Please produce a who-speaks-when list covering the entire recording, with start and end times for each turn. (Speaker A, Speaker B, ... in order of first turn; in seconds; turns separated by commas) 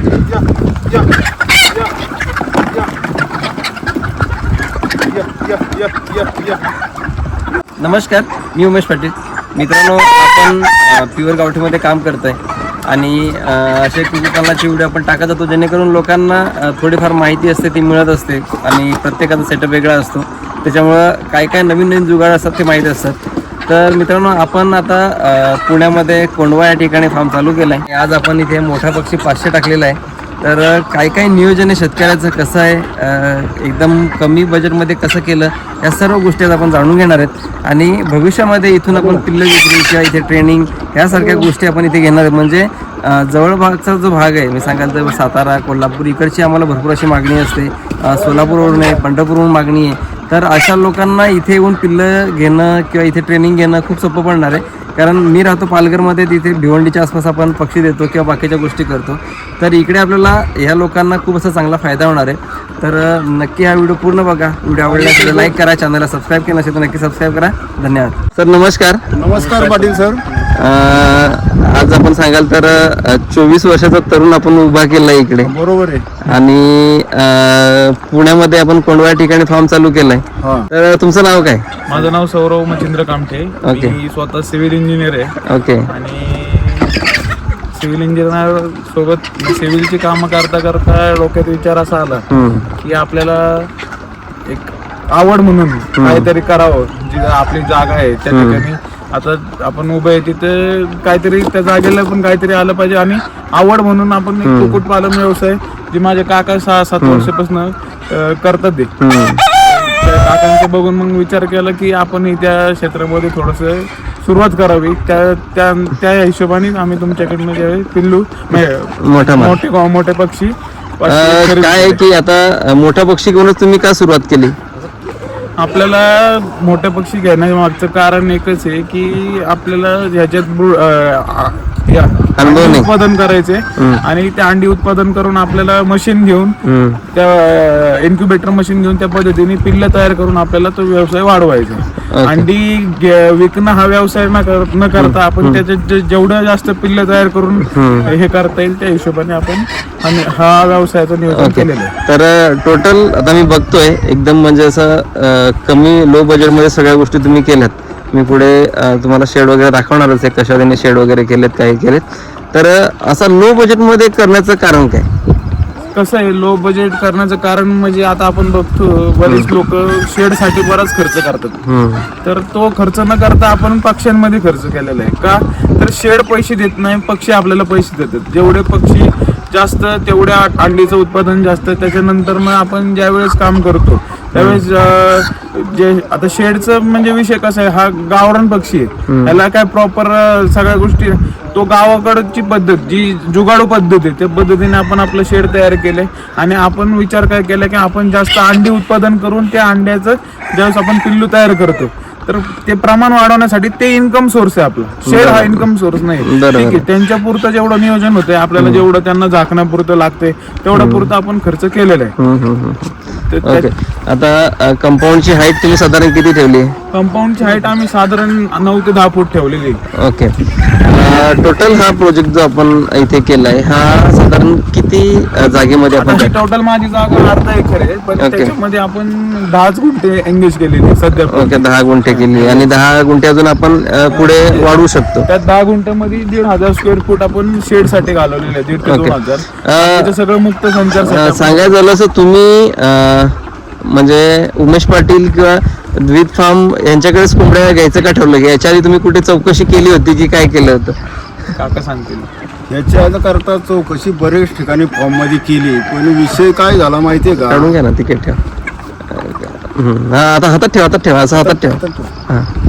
Speaker A: 0.3-1.1, Speaker A: 5.1-6.6, Speaker B: 7.8-69.0, Speaker C: 38.9-39.3, Speaker C: 48.1-49.0, Speaker C: 64.8-65.5, Speaker C: 69.1-70.2, Speaker B: 70.5-75.5, Speaker C: 75.4-76.2, Speaker B: 76.2-81.7, Speaker C: 80.4-80.7, Speaker A: 81.9-85.4, Speaker B: 83.6-84.0, Speaker B: 85.5-85.9, Speaker A: 85.9-86.9, Speaker A: 87.7-92.2, Speaker B: 92.3-92.7, Speaker A: 92.8-93.7, Speaker A: 94.5-108.9, Speaker B: 96.0-96.3, Speaker B: 98.3-98.6, Speaker B: 104.4-104.8, Speaker B: 107.0-107.3, Speaker B: 109.0-109.4, Speaker A: 109.5-122.0, Speaker B: 119.0-119.6, Speaker B: 121.1-124.6, Speaker A: 125.6-136.6, Speaker B: 132.4-132.9, Speaker B: 133.8-134.0, Speaker B: 136.6-137.0, Speaker A: 137.1-151.9, Speaker B: 142.1-142.5, Speaker B: 145.0-145.6, Speaker B: 147.7-148.1, Speaker B: 151.3-165.1, Speaker A: 165.9-171.6, Speaker B: 171.7-172.1, Speaker A: 172.2-212.1, Speaker B: 184.4-184.6, Speaker B: 189.1-189.4, Speaker B: 205.1-205.7, Speaker B: 206.2-206.8, Speaker B: 208.6-208.8, Speaker B: 210.8-211.1, Speaker B: 212.2-216.8, Speaker A: 213.3-213.7, Speaker A: 216.9-219.8, Speaker B: 219.9-226.3, Speaker A: 226.0-232.7, Speaker B: 228.2-228.5, Speaker B: 231.2-235.3, Speaker A: 234.1-241.7, Speaker B: 238.8-240.1, Speaker B: 240.9-251.0, Speaker A: 251.6-252.3, Speaker C: 252.7-257.7, Speaker B: 257.5-258.4, Speaker B: 259.1-262.5, Speaker C: 261.4-262.1